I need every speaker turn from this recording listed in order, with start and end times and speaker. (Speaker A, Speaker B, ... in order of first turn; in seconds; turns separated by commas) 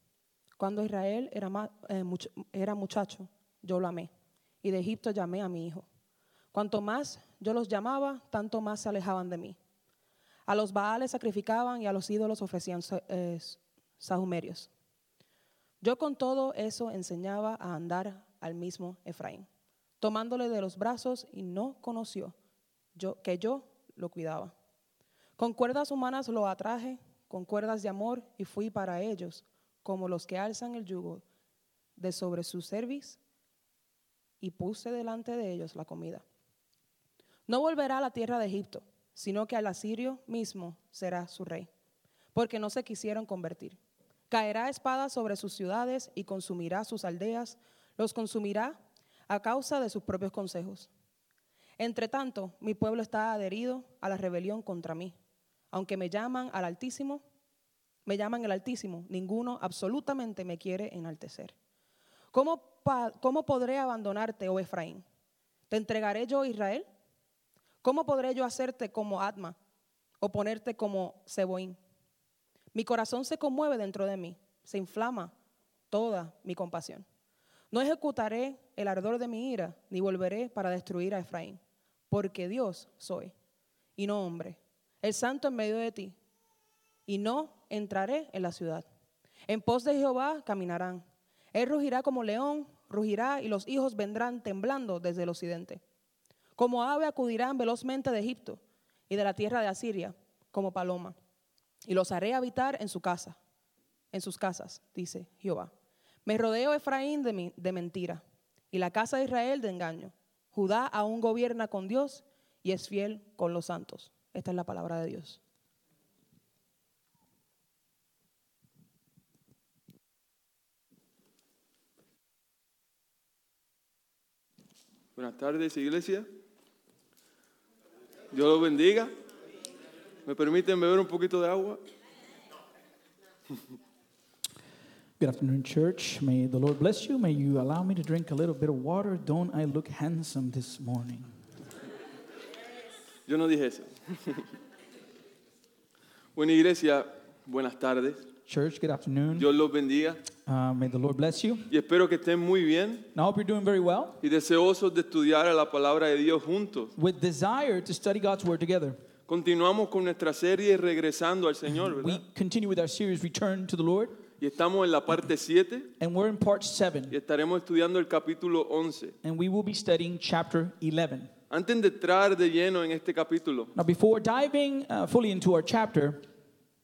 Speaker A: 0.6-4.1, Speaker A: 4.6-5.8, Speaker A: 6.5-9.6, Speaker A: 10.5-14.7, Speaker A: 15.8-19.4, Speaker A: 20.0-22.4, Speaker A: 22.9-24.5, Speaker A: 25.4-31.2, Speaker A: 32.0-33.2, Speaker A: 34.4-36.2, Speaker A: 37.5-41.7, Speaker A: 42.3-43.8, Speaker A: 44.3-50.9, Speaker A: 51.8-55.1, Speaker A: 55.7-57.2, Speaker A: 58.0-61.5, Speaker A: 62.3-65.0, Speaker A: 65.7-66.9, Speaker A: 67.8-69.6, Speaker A: 70.2-71.8, Speaker A: 72.7-75.3, Speaker A: 75.9-77.0, Speaker A: 77.7-83.3, Speaker A: 84.0-86.2, Speaker A: 87.1-88.8, Speaker A: 89.5-95.8, Speaker A: 96.6-101.1, Speaker A: 101.8-103.4, Speaker A: 104.1-105.7, Speaker A: 106.2-115.4, Speaker B: 125.2-126.3, Speaker B: 128.3-129.1, Speaker B: 130.2-131.8, Speaker C: 135.2-141.3, Speaker B: 143.3-144.5, Speaker B: 146.3-148.2, Speaker C: 148.5-149.5, Speaker B: 149.4-150.2, Speaker C: 150.4-151.7, Speaker B: 151.7-153.1, Speaker C: 153.1-154.2, Speaker B: 154.2-156.9, Speaker C: 157.0-159.0, Speaker B: 159.3-162.2, Speaker C: 161.8-164.2, Speaker B: 164.4-165.9, Speaker C: 166.0-167.2, Speaker B: 167.1-169.1, Speaker C: 169.2-171.3, Speaker B: 171.5-173.7, Speaker C: 173.7-176.2